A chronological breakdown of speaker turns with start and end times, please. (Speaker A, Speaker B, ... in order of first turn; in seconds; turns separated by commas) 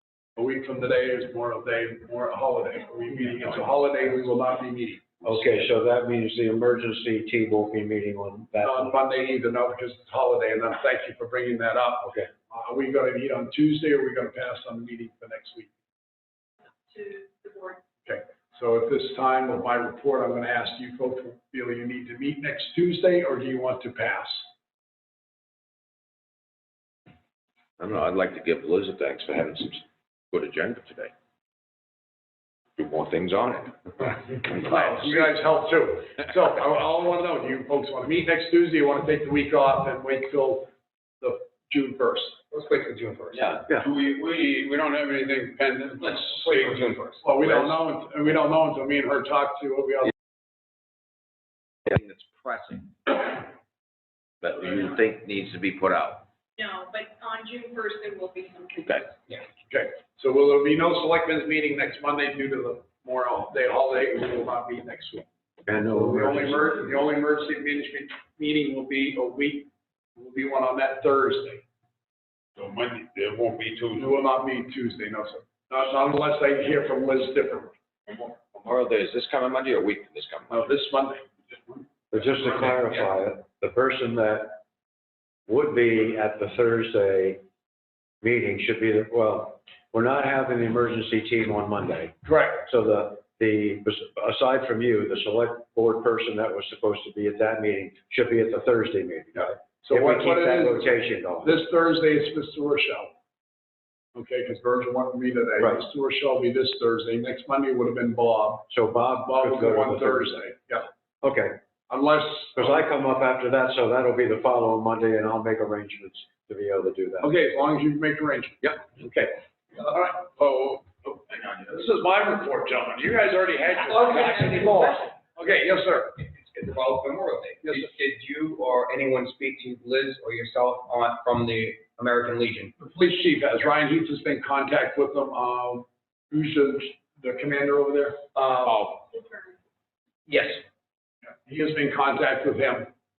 Speaker A: 0.4-5.4, Speaker B: 5.2-9.0, Speaker A: 8.6-15.7, Speaker B: 12.0-12.3, Speaker C: 16.9-17.8, Speaker A: 18.1-24.5, Speaker D: 27.8-31.1, Speaker D: 32.8-35.2, Speaker A: 34.5-42.4, Speaker E: 42.5-43.6, Speaker D: 43.4-43.6, Speaker A: 43.9-50.1, Speaker E: 46.1-47.2, Speaker D: 51.9-53.5, Speaker D: 54.4-56.3, Speaker C: 56.6-59.4, Speaker A: 59.7-71.6, Speaker B: 65.7-66.8, Speaker A: 73.9-77.7, Speaker D: 78.1-80.7, Speaker A: 80.5-81.9, Speaker B: 82.1-84.6, Speaker B: 85.5-87.4, Speaker B: 88.2-101.5, Speaker A: 92.2-92.7, Speaker A: 99.4-100.9, Speaker A: 101.4-103.2, Speaker A: 104.2-108.7, Speaker B: 108.7-110.4, Speaker A: 109.2-110.9, Speaker B: 111.2-117.3, Speaker A: 111.9-112.8, Speaker A: 117.2-120.9, Speaker A: 121.5-126.2, Speaker E: 126.2-132.7, Speaker A: 127.6-127.9, Speaker A: 132.8-138.2, Speaker E: 138.4-139.0, Speaker C: 139.1-139.4, Speaker E: 140.3-140.6, Speaker A: 141.5-142.9